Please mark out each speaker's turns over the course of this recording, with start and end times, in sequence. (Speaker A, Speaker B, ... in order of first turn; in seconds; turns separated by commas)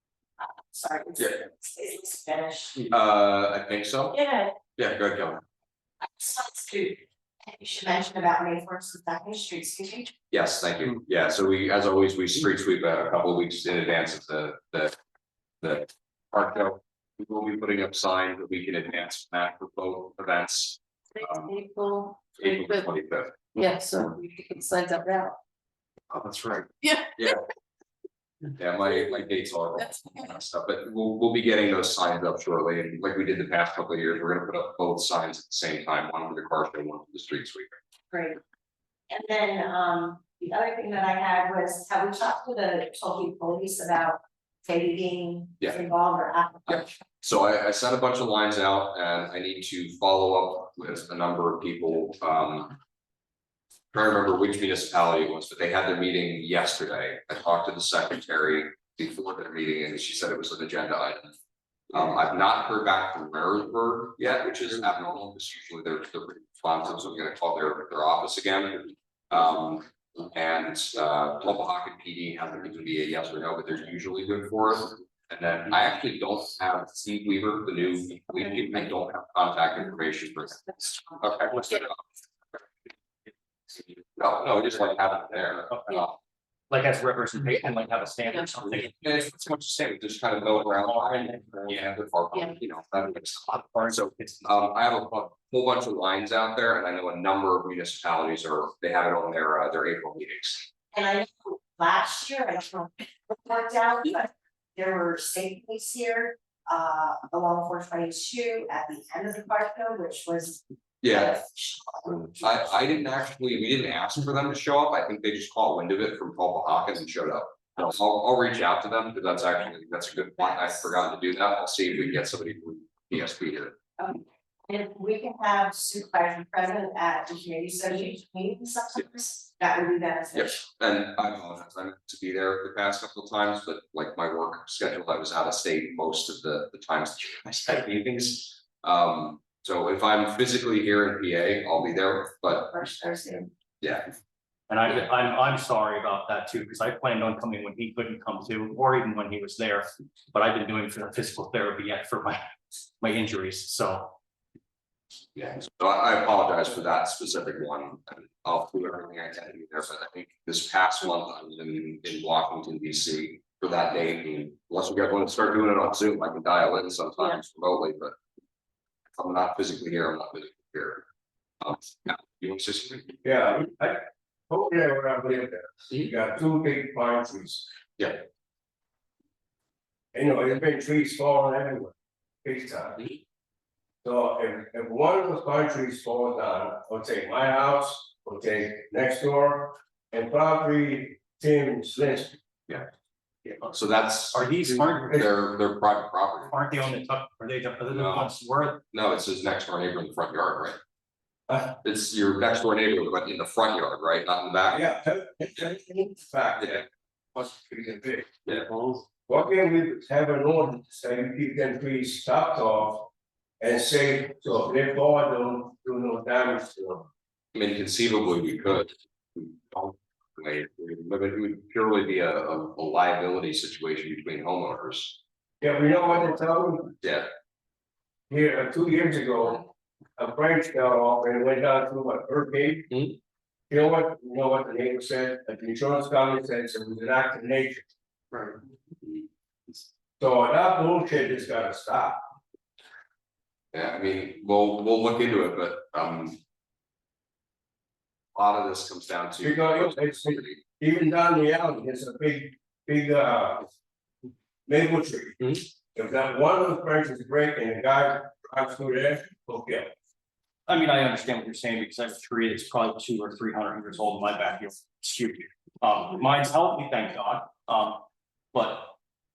Speaker A: 0.4-2.9, Speaker B: 2.8-4.1, Speaker A: 4.1-4.5, Speaker B: 4.8-5.4, Speaker A: 6.0-10.1, Speaker B: 10.3-14.9, Speaker B: 15.6-21.5, Speaker C: 21.1-22.9, Speaker B: 22.3-23.5, Speaker C: 23.5-25.4, Speaker C: 26.8-27.3, Speaker B: 28.6-37.8, Speaker C: 29.9-30.2, Speaker A: 38.1-38.4, Speaker A: 39.1-46.9, Speaker B: 46.7-52.8, Speaker B: 53.9-61.3, Speaker B: 61.9-82.0, Speaker B: 84.2-86.1, Speaker D: 85.7-86.1, Speaker D: 86.7-89.4, Speaker B: 88.7-100.7, Speaker D: 90.5-92.0, Speaker D: 93.5-94.4, Speaker A: 100.9-112.7, Speaker B: 111.0-111.3, Speaker B: 112.4-123.7, Speaker A: 124.0-130.7, Speaker B: 130.3-142.7, Speaker A: 142.7-143.5, Speaker D: 144.7-154.2, Speaker B: 155.3-168.1, Speaker B: 169.1-171.1, Speaker B: 171.6-173.2, Speaker E: 173.2-177.7, Speaker E: 180.1-181.9, Speaker E: 182.4-183.1, Speaker E: 184.0-192.4, Speaker B: 193.7-194.4, Speaker D: 194.3-195.3, Speaker B: 195.2-196.5, Speaker D: 196.5-198.8, Speaker B: 198.9-200.8, Speaker E: 201.5-201.7, Speaker B: 201.8-204.8, Speaker E: 204.7-208.4, Speaker E: 209.3-217.1, Speaker B: 217.5-225.2, Speaker E: 225.6-226.9, Speaker B: 227.0-227.3, Speaker E: 228.3-232.9, Speaker E: 233.7-237.8, Speaker E: 240.2-242.2, Speaker B: 243.7-246.4, Speaker B: 248.3-250.6, Speaker E: 249.4-253.7, Speaker E: 254.7-259.9, Speaker D: 260.6-268.9